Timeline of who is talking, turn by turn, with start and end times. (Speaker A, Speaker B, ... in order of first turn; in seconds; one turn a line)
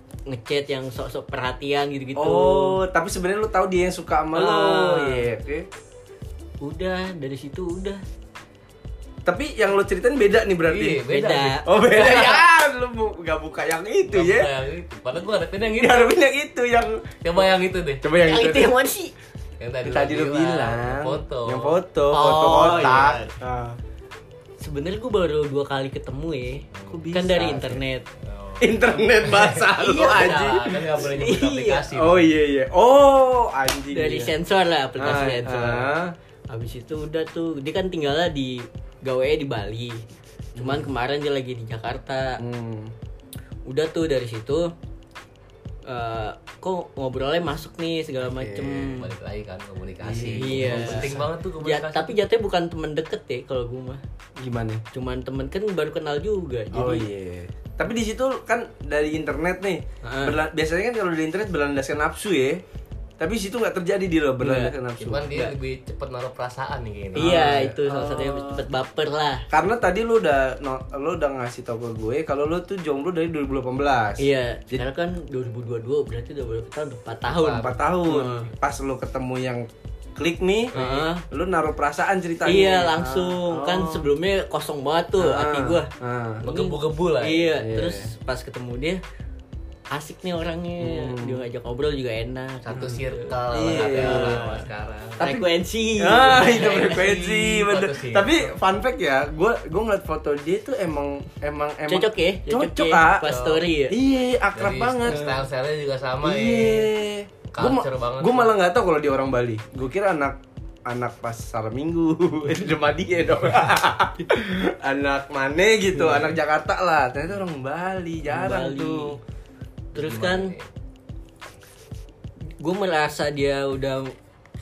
Speaker A: 0.3-2.8
Speaker B: 2.1-5.7
Speaker A: 4.3-5.3
Speaker A: 6.6-8.0
Speaker B: 9.2-11.1
Speaker C: 10.7-12.4
Speaker A: 11.1-11.7
Speaker B: 11.6-14.5
Speaker C: 14.1-16.1
Speaker B: 15.8-17.1
Speaker C: 17.2-18.0
Speaker B: 18.0-18.8
Speaker A: 18.1-19.1
Speaker C: 19.6-23.2
Speaker B: 19.8-23.8
Speaker A: 22.6-23.3
Speaker A: 24.6-28.1
Speaker C: 26.7-27.0
Speaker B: 26.9-27.8
Speaker C: 28.2-32.3
Speaker B: 28.6-31.1
Speaker A: 30.9-31.8
Speaker B: 31.9-34.4
Speaker A: 33.9-35.9
Speaker B: 35.0-36.1
Speaker A: 36.5-40.0
Speaker B: 40.5-40.9
Speaker A: 40.5-42.4
Speaker B: 42.4-42.9
Speaker A: 43.7-44.7
Speaker A: 45.9-49.1
Speaker B: 48.3-48.9
Speaker C: 48.7-52.2
Speaker B: 50.0-51.3
Speaker A: 50.4-54.0
Speaker B: 54.4-54.8
Speaker A: 54.9-57.0
Speaker B: 56.7-62.6
Speaker A: 60.0-60.4
Speaker B: 63.2-65.3
Speaker A: 64.4-64.7
Speaker C: 65.0-67.7
Speaker B: 67.1-68.6
Speaker A: 67.1-69.5
Speaker B: 69.5-74.8
Speaker A: 74.2-78.5
Speaker C: 77.3-77.7
Speaker B: 77.4-84.1
Speaker A: 80.7-81.2
Speaker A: 82.4-85.9
Speaker B: 85.2-86.4
Speaker C: 86.4-87.6
Speaker A: 86.4-89.0
Speaker B: 87.6-88.1
Speaker A: 89.9-94.7
Speaker B: 90.8-91.4
Speaker C: 92.6-95.2
Speaker B: 92.7-94.6
Speaker B: 95.2-95.5
Speaker A: 95.2-97.0
Speaker B: 96.0-105.4
Speaker C: 96.4-98.5
Speaker A: 101.9-104.0
Speaker C: 103.2-103.7
Speaker C: 104.5-106.9
Speaker A: 105.1-105.4
Speaker B: 106.2-119.2
Speaker C: 107.5-108.5
Speaker A: 118.2-119.2
Speaker A: 119.9-120.5
Speaker C: 119.9-120.7
Speaker A: 122.6-124.1